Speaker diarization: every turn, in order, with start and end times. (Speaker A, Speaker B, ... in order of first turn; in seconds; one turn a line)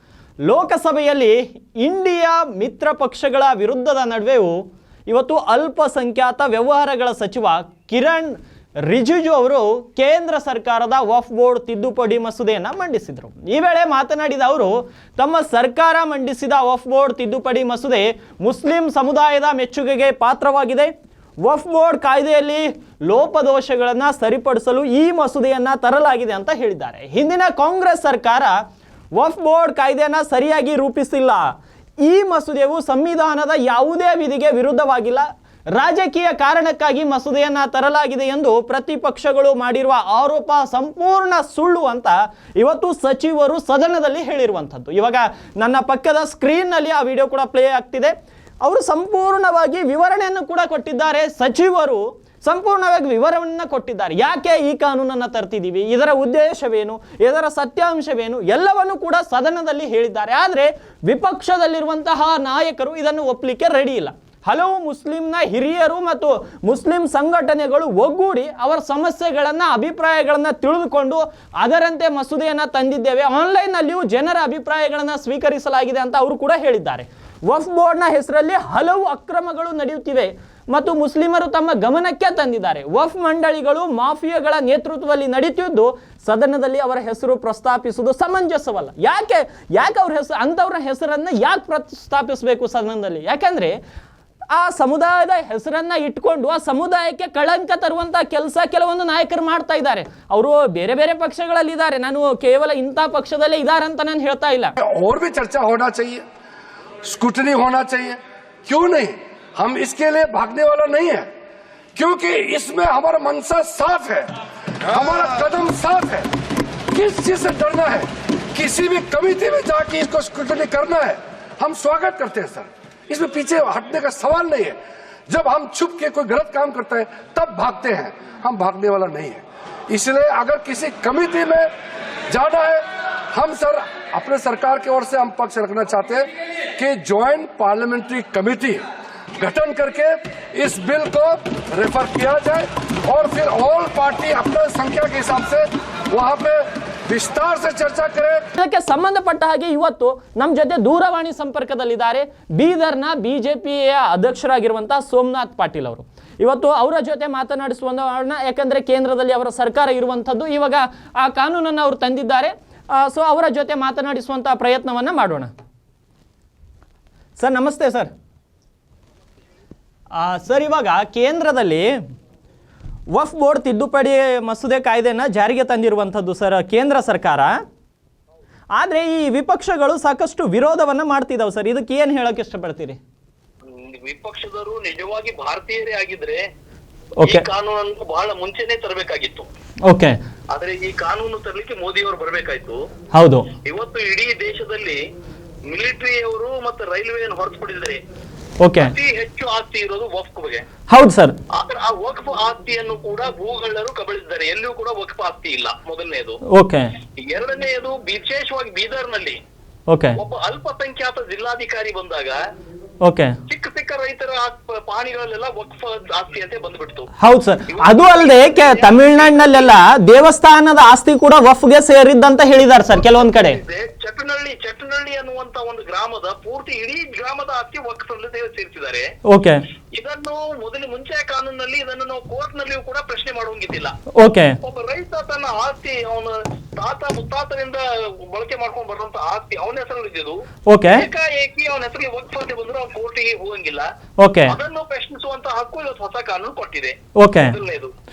Speaker A: 0.4-93.8
Speaker A: 94.5-104.7
Speaker B: 104.8-106.2
Speaker B: 107.0-111.3
Speaker B: 111.9-114.3
Speaker B: 114.9-116.3
Speaker B: 116.9-124.8
Speaker B: 125.3-131.7
Speaker B: 132.3-138.8
Speaker B: 139.4-148.4
Speaker A: 148.6-165.5
Speaker A: 167.4-168.1
Speaker A: 170.1-172.0
Speaker A: 173.1-177.6
Speaker A: 178.7-183.0
Speaker C: 183.7-186.4
Speaker C: 187.2-189.5
Speaker A: 189.8-190.2
Speaker C: 190.5-192.8
Speaker A: 193.1-193.5
Speaker C: 193.6-195.0
Speaker C: 195.7-198.0
Speaker A: 198.6-198.9
Speaker C: 198.8-200.6
Speaker A: 200.9-201.3
Speaker C: 201.5-206.4
Speaker A: 206.5-206.9
Speaker C: 207.2-209.4
Speaker A: 209.9-210.2
Speaker C: 210.2-212.4
Speaker A: 213.0-213.3
Speaker C: 213.5-217.1
Speaker A: 217.2-223.6
Speaker C: 217.7-219.8
Speaker C: 223.2-229.1
Speaker A: 229.2-229.6
Speaker C: 229.9-233.9
Speaker A: 234.1-234.6
Speaker C: 234.6-240.4
Speaker A: 240.7-241.1
Speaker C: 240.9-243.8
Speaker A: 244.2-244.5
Speaker C: 244.5-247.9
Speaker A: 247.2-247.5